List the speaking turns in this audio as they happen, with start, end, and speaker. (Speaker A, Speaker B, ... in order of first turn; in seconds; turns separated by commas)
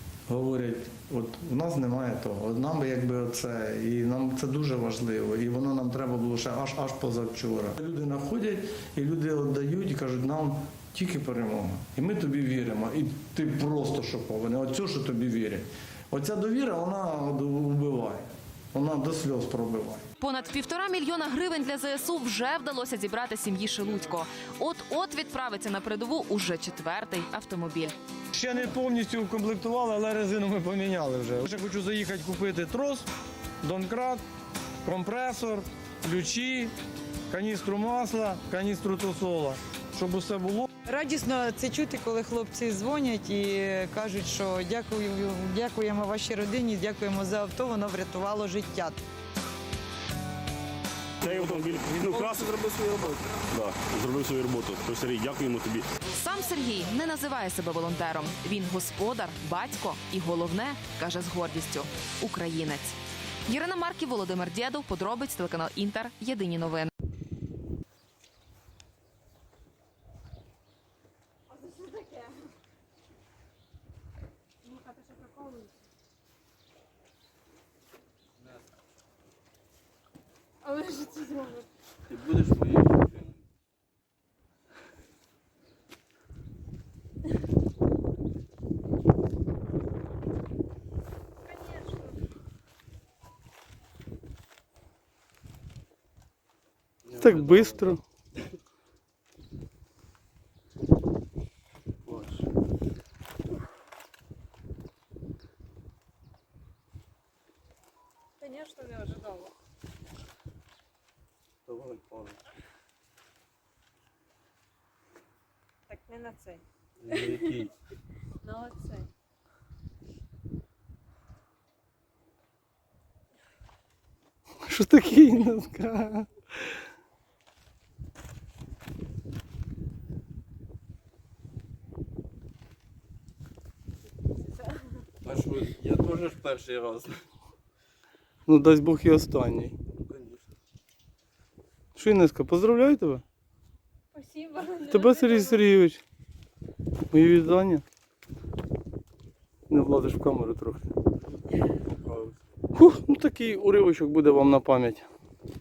Speaker A: 0.3-20.0, Speaker B: 20.2-27.9, Speaker A: 28.3-33.1, Speaker A: 33.6-34.2, Speaker A: 34.8-36.7, Speaker A: 37.3-40.7, Speaker C: 40.8-49.0, Speaker D: 51.2-55.9, Speaker E: 53.0-53.3, Speaker B: 56.1-66.9, Speaker F: 71.5-72.4, Speaker F: 74.6-75.7, Speaker F: 80.6-81.7, Speaker E: 82.1-83.4, Speaker F: 91.5-92.2, Speaker E: 97.1-98.0, Speaker A: 97.2-98.0, Speaker E: 102.0-102.4, Speaker F: 108.4-109.5, Speaker E: 111.7-112.4, Speaker F: 115.9-117.5, Speaker E: 117.0-117.7, Speaker F: 118.4-119.1, Speaker A: 124.7-126.3, Speaker E: 135.2-137.2, Speaker A: 138.5-139.8, Speaker E: 139.9-140.5, Speaker A: 141.9-143.2, Speaker F: 144.1-145.6, Speaker A: 144.8-146.0, Speaker A: 147.1-147.8, Speaker A: 149.7-150.9, Speaker E: 151.9-152.3, Speaker A: 152.7-155.1